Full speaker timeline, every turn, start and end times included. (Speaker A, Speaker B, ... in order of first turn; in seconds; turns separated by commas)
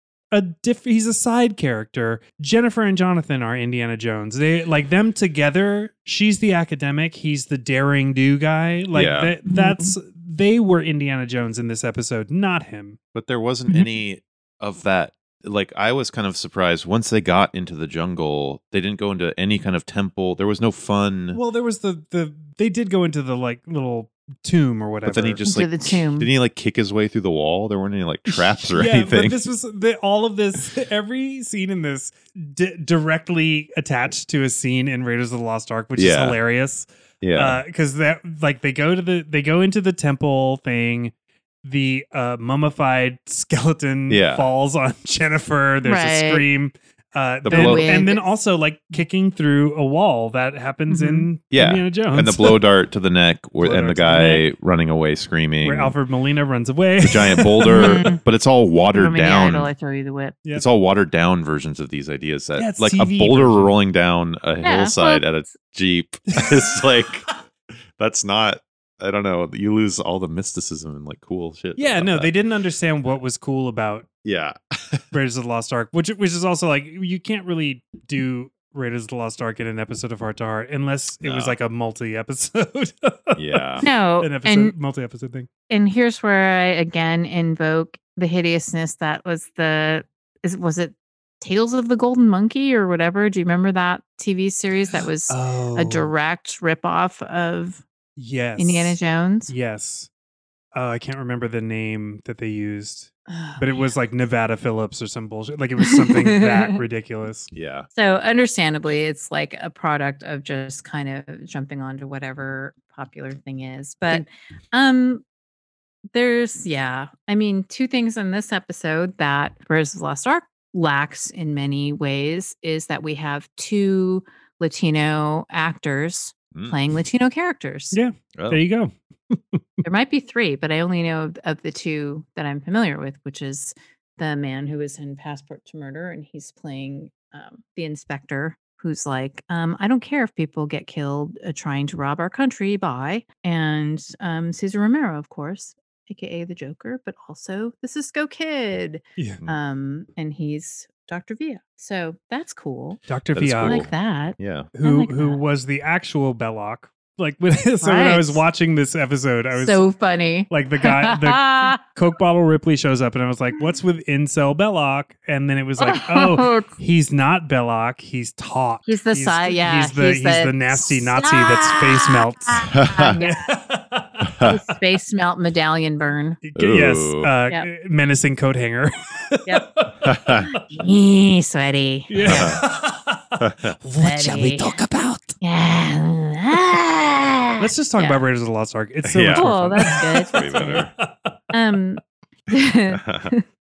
Speaker A: 0.3-13.0, Speaker B: 8.9-9.3, Speaker C: 9.5-9.9, Speaker B: 13.1-21.4, Speaker A: 21.3-25.4, Speaker B: 25.1-29.4, Speaker C: 25.5-26.3, Speaker A: 28.3-41.1, Speaker B: 36.0-36.4, Speaker B: 37.2-37.6, Speaker A: 41.6-52.6, Speaker B: 44.1-44.5, Speaker C: 45.8-46.5, Speaker B: 47.4-48.0, Speaker C: 47.5-48.3, Speaker C: 50.9-51.3, Speaker B: 51.5-56.0, Speaker A: 53.6-54.5, Speaker A: 55.6-58.1, Speaker B: 57.0-59.7, Speaker C: 57.7-58.2, Speaker C: 58.9-60.4, Speaker B: 60.5-67.3, Speaker A: 62.6-63.7, Speaker C: 64.6-65.5, Speaker A: 66.3-66.8, Speaker B: 68.0-72.3, Speaker A: 71.8-74.1, Speaker B: 74.2-75.0, Speaker A: 75.1-83.7, Speaker B: 81.2-81.6, Speaker B: 83.3-83.8, Speaker C: 83.8-84.8, Speaker A: 84.2-85.5, Speaker C: 85.7-97.8, Speaker A: 95.3-96.1, Speaker A: 98.2-100.1, Speaker C: 98.6-99.5, Speaker A: 100.7-107.5, Speaker C: 103.3-103.7, Speaker C: 105.8-106.8, Speaker B: 107.5-107.9, Speaker C: 107.9-115.2, Speaker C: 116.1-128.0, Speaker A: 127.9-129.6, Speaker B: 128.3-128.6, Speaker C: 129.8-153.0, Speaker A: 153.1-153.8, Speaker B: 153.3-154.7, Speaker C: 153.6-155.4, Speaker A: 154.7-159.8, Speaker C: 157.8-158.4, Speaker C: 159.6-161.8, Speaker A: 160.5-174.4, Speaker C: 165.8-166.7, Speaker C: 168.9-173.5, Speaker B: 172.7-173.2, Speaker B: 174.2-174.6, Speaker C: 174.4-176.4, Speaker A: 176.4-180.6, Speaker B: 176.6-177.3, Speaker B: 180.0-180.5, Speaker C: 180.5-182.6, Speaker A: 182.1-185.4, Speaker B: 182.2-182.6, Speaker B: 183.4-183.8, Speaker C: 184.0-184.8, Speaker C: 185.4-188.2, Speaker A: 187.6-191.4, Speaker B: 189.1-190.9, Speaker C: 189.3-190.8, Speaker C: 191.5-193.4, Speaker B: 192.9-193.3